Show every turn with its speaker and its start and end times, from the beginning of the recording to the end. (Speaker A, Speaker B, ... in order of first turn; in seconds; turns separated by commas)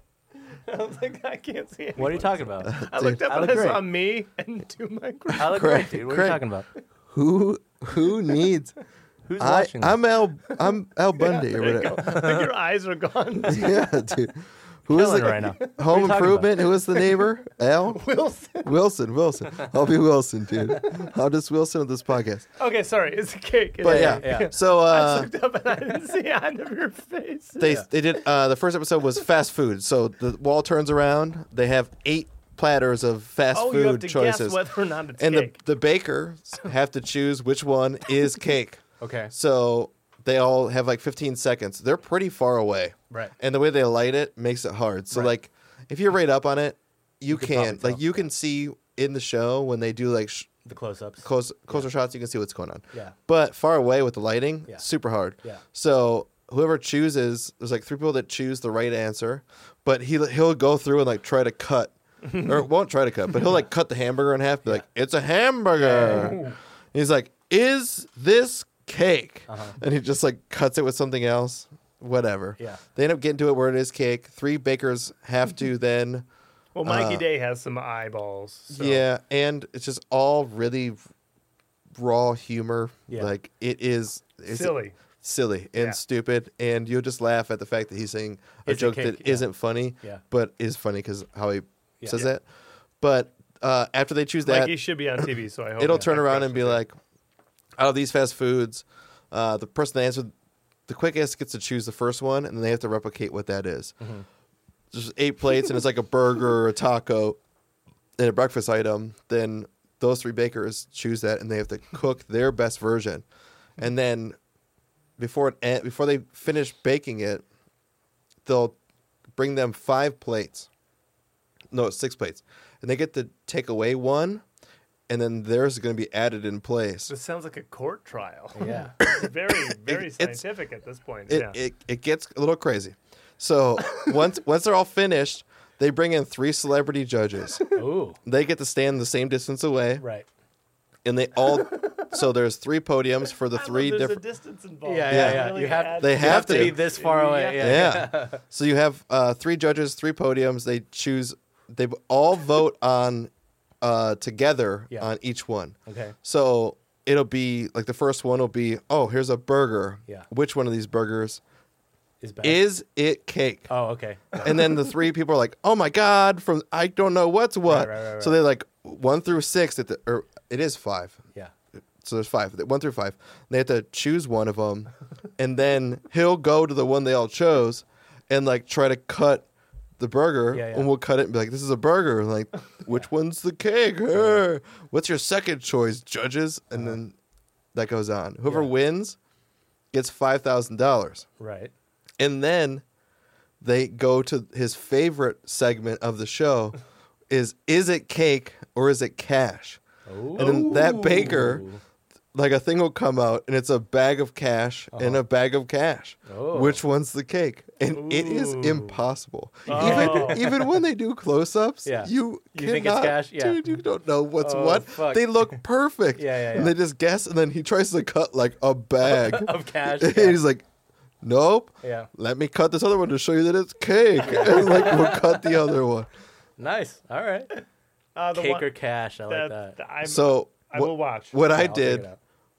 Speaker A: 0.7-5.8, Speaker B: 2.0-3.8, Speaker C: 2.6-3.2, Speaker B: 5.4-6.7, Speaker C: 5.4-6.4, Speaker C: 7.1-8.7, Speaker B: 9.3-10.0, Speaker C: 9.4-12.0, Speaker A: 10.5-14.1, Speaker B: 12.0-12.5, Speaker C: 13.5-18.1, Speaker B: 14.9-16.5, Speaker A: 16.9-17.3, Speaker A: 17.9-18.7, Speaker C: 18.6-22.5, Speaker A: 22.6-27.7, Speaker C: 23.8-25.3, Speaker B: 23.9-24.5, Speaker C: 27.6-34.6, Speaker B: 27.6-27.9, Speaker A: 33.5-35.6, Speaker C: 35.2-50.6, Speaker B: 39.0-39.3, Speaker B: 47.3-48.3, Speaker B: 50.6-51.9, Speaker C: 51.2-76.3, Speaker B: 65.8-66.6, Speaker A: 65.9-66.5, Speaker B: 69.5-69.8, Speaker A: 76.8-79.0, Speaker C: 76.8-77.2, Speaker C: 78.7-81.0, Speaker C: 81.9-92.4, Speaker A: 84.5-85.0, Speaker B: 88.7-90.2, Speaker C: 93.0-95.2, Speaker A: 94.4-96.8, Speaker C: 95.8-97.0, Speaker C: 97.8-100.3, Speaker C: 100.9-104.0, Speaker C: 104.9-107.4, Speaker C: 108.2-113.2, Speaker C: 113.8-114.4, Speaker C: 115.2-117.4, Speaker C: 118.5-118.8, Speaker C: 119.3-120.7, Speaker C: 121.7-124.4, Speaker C: 125.1-127.1, Speaker A: 127.1-131.6, Speaker B: 128.6-128.9, Speaker C: 129.0-130.4, Speaker C: 131.3-137.7, Speaker B: 137.8-138.2, Speaker C: 138.2-140.0, Speaker B: 140.0-140.3, Speaker C: 141.0-144.2, Speaker A: 141.6-142.1, Speaker A: 143.4-148.0, Speaker B: 144.8-148.4, Speaker C: 145.1-146.8, Speaker C: 147.6-161.4, Speaker B: 155.9-156.2, Speaker B: 162.2-162.6, Speaker C: 162.4-163.7, Speaker B: 163.7-164.6, Speaker C: 164.4-171.2, Speaker B: 167.7-168.4, Speaker C: 172.0-179.5, Speaker C: 180.0-187.2, Speaker B: 180.5-180.9, Speaker B: 184.1-184.4, Speaker C: 187.7-189.2, Speaker B: 188.5-188.7, Speaker C: 189.9-191.3, Speaker B: 191.4-191.7, Speaker C: 192.2-192.8, Speaker C: 193.6-196.8, Speaker C: 197.3-199.8, Speaker B: 200.1-201.8, Speaker C: 200.3-201.7, Speaker C: 202.3-220.6, Speaker B: 204.9-205.2, Speaker B: 206.3-206.8, Speaker A: 207.9-209.0, Speaker A: 209.7-210.5, Speaker B: 209.7-210.6, Speaker B: 211.8-213.6, Speaker B: 214.4-215.6, Speaker B: 216.2-216.8, Speaker B: 219.0-220.4, Speaker C: 221.2-226.1, Speaker B: 221.8-222.1, Speaker B: 224.2-225.6, Speaker B: 226.6-227.5, Speaker A: 228.2-228.8, Speaker B: 228.3-229.8, Speaker A: 229.3-231.3, Speaker C: 230.0-232.1, Speaker B: 231.4-232.2